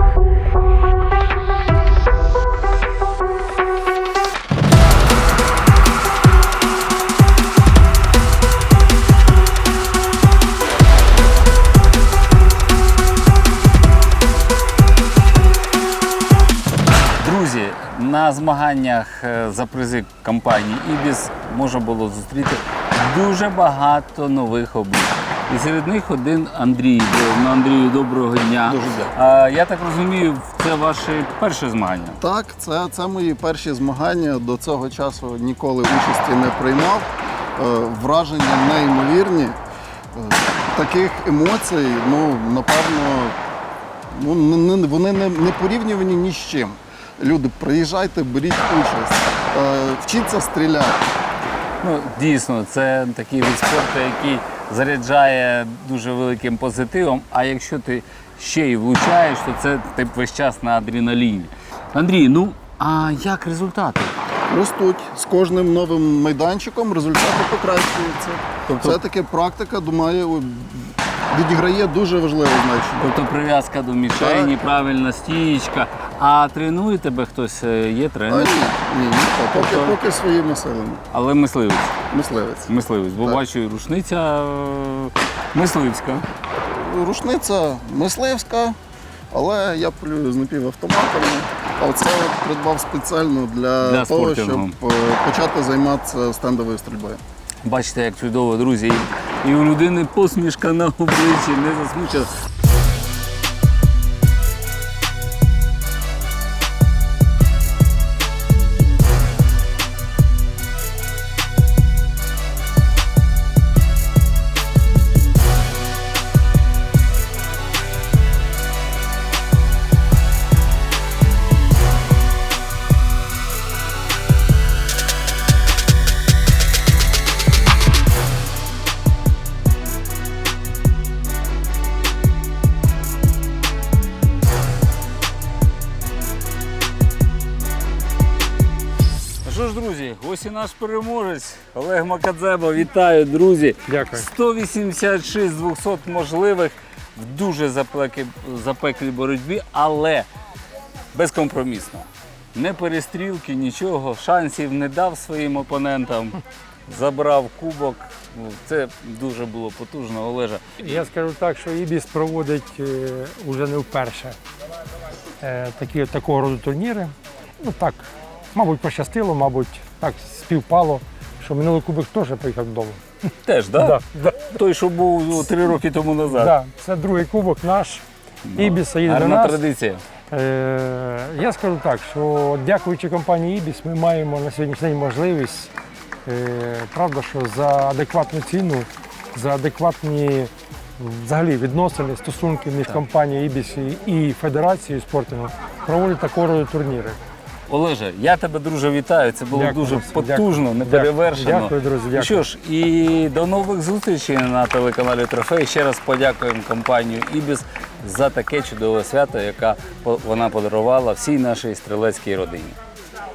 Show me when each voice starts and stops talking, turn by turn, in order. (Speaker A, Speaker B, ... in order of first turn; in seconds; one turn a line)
Speaker A: 17.2-32.2
Speaker B: 28.7-29.1
Speaker B: 32.2-39.6
Speaker B: 40.1-43.4
Speaker B: 44.1-51.1
Speaker A: 51.8-64.2
Speaker B: 64.5-73.1
Speaker A: 68.7-69.0
Speaker A: 73.0-78.6
Speaker B: 74.2-74.5
Speaker B: 78.3-81.0
Speaker A: 79.5-80.0
Speaker A: 81.1-82.0
Speaker B: 82.1-83.4
Speaker A: 82.7-86.3
Speaker B: 86.6-88.8
Speaker B: 89.3-97.2
Speaker A: 93.8-94.8
Speaker A: 97.6-102.3
Speaker A: 139.4-150.3
Speaker C: 143.9-144.3
Speaker A: 151.1-160.8
Speaker C: 160.8-164.4
Speaker C: 165.4-173.0
Speaker A: 173.4-176.6
Speaker C: 173.8-174.5
Speaker C: 176.3-178.0
Speaker A: 178.4-180.0
Speaker C: 178.6-179.6
Speaker C: 180.3-185.7
Speaker C: 186.3-197.2
Speaker A: 197.7-212.8
Speaker C: 199.5-202.5